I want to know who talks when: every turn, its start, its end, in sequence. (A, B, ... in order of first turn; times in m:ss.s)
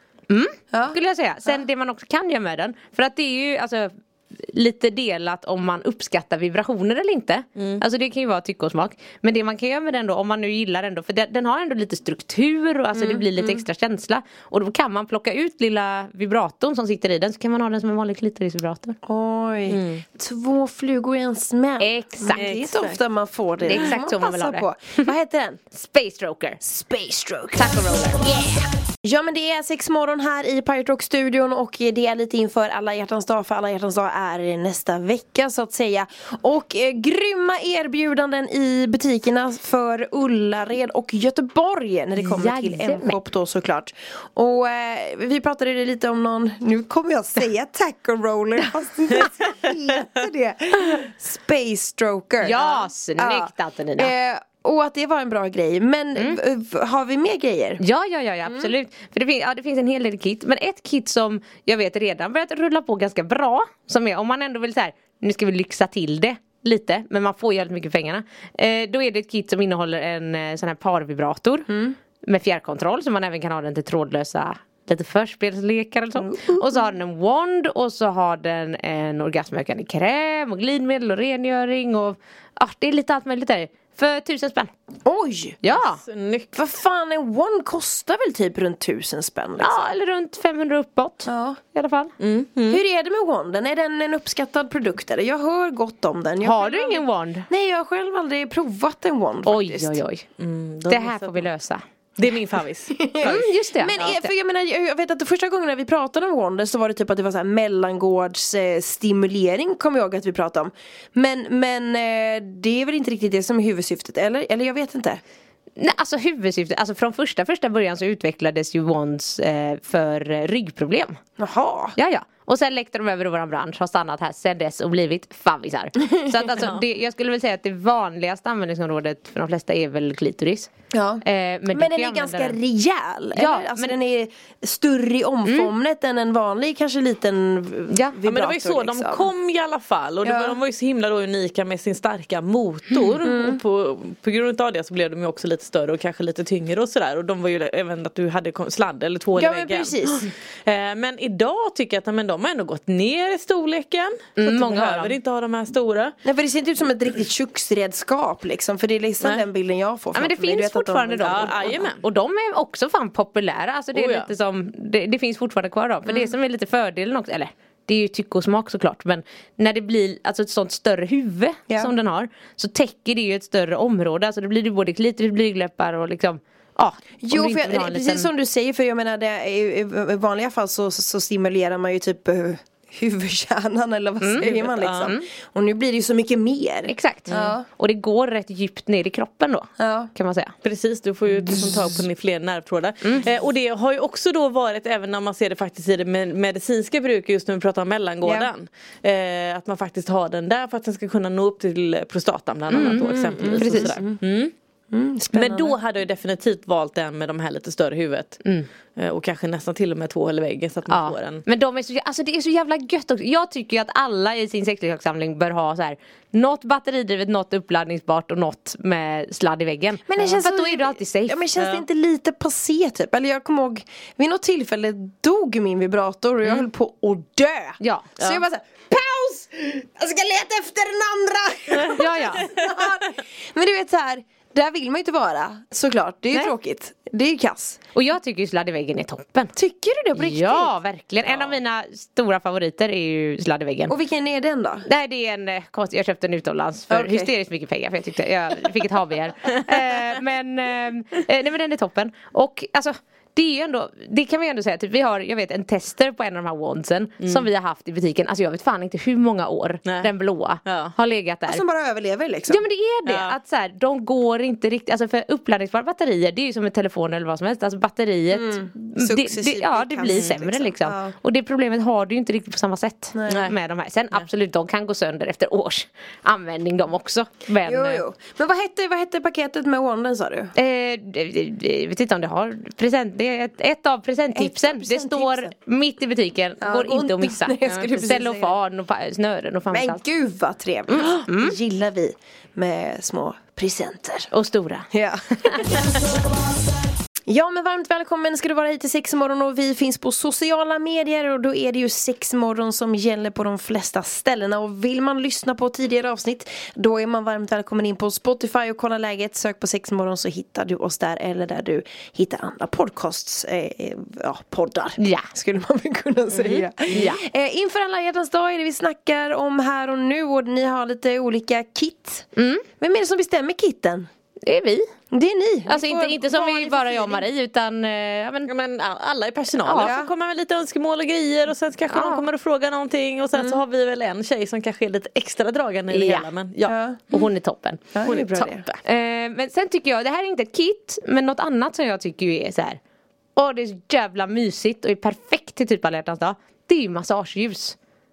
0:00.3-0:19.0 A
0:00.7-0:01.6 B
0:07.6-0:07.8 C
0:12.9-0:13.6 B
0:19.0-0:25.6 B
0:19.7-0:20.0 C
0:21.8-0:22.5 A
0:22.3-0:23.0 C
0:23.6-0:25.1 A
0:25.7-0:26.6 A
0:26.6-0:57.8 B
0:27.5-0:28.2 A
0:42.2-0:43.2 A
0:52.4-0:54.1 A
0:57.8-1:11.7 A
0:58.5-0:58.7 B
1:11.7-1:12.0 B
1:12.2-1:24.7 A
1:16.2-1:16.9 B
1:25.0-1:25.6 B
1:25.6-1:26.0 A
1:26.0-1:26.6 C
1:26.5-1:29.9 B
1:29.6-1:32.1 A
1:31.3-1:31.6 B
1:32.2-1:32.8 C
1:32.7-1:40.0 B
1:36.4-1:37.5 A
1:39.4-1:40.3 A
1:40.4-1:41.5 C
1:40.9-1:41.8 A
1:42.2-1:43.4 C
1:42.9-1:55.2 B
1:43.2-1:44.3 A
1:43.9-1:44.2 C
1:55.8-2:01.2 A
2:01.4-2:02.0 B
2:02.0-2:10.7 A
2:10.9-2:19.3 B
2:11.2-2:12.6 A
2:13.4-2:14.0 A
2:15.5-2:15.7 A
2:17.9-2:18.2 A
2:18.2-2:36.2 C
2:20.2-2:20.6 B
2:23.2-2:23.6 B
2:29.4-2:30.3 B
2:34.4-2:35.2 A
2:36.2-2:41.8 B
2:40.1-2:58.3 A
2:41.2-2:42.0 C
2:43.9-2:44.3 C
2:46.0-2:46.3 B
2:57.2-3:07.6 B
3:04.2-3:05.2 A
3:04.4-3:05.1 C
3:06.9-3:10.5 A
3:09.8-3:10.1 B
3:10.6-3:24.5 C
3:11.5-3:11.7 B
3:18.2-3:18.5 B
3:22.7-3:23.9 A
3:22.8-3:24.2 B
3:24.9-3:25.8 B
3:25.3-3:28.4 C
3:29.0-3:31.4 C
3:30.9-3:41.5 A
3:40.0-3:57.8 B
3:41.6-3:41.8 C
3:47.8-3:48.1 A
3:51.8-3:52.5 C
3:51.9-3:52.5 A
3:57.9-3:59.5 A
3:59.6-4:00.7 B
4:00.1-4:03.9 A
4:01.3-4:01.6 C
4:03.9-4:04.9 B
4:04.9-4:21.6 A
4:06.9-4:07.3 B
4:17.2-4:17.5 C
4:20.6-4:20.9 C
4:21.5-4:22.6 B
4:22.5-4:38.0 A
4:23.0-4:23.4 C
4:28.3-4:31.1 B
4:30.1-4:30.3 C
4:33.1-4:33.5 B
4:33.3-4:33.5 C
4:37.6-4:40.5 B
4:40.6-4:50.0 A
4:44.3-4:45.5 B
4:46.6-4:48.6 B
4:49.7-4:54.3 B
4:50.9-4:51.6 A
4:54.3-4:54.9 A
4:54.9-4:56.2 B
4:57.3-5:24.1 B
5:15.0-5:15.3 A
5:16.4-5:17.1 C
5:16.9-5:17.2 A
5:22.4-5:22.6 A
5:24.4-5:24.9 A
5:25.1-5:27.3 B
5:25.7-5:28.5 A
5:28.5-5:37.2 C
5:29.6-5:29.9 A
5:29.8-5:30.1 B
5:31.9-5:32.2 A
5:33.3-5:33.6 B
5:35.9-5:36.3 A
5:36.6-5:37.0 B
5:37.1-5:37.8 A
5:37.9-5:38.6 B
5:38.0-5:38.8 C
5:38.8-5:42.8 A
5:43.4-5:47.8 A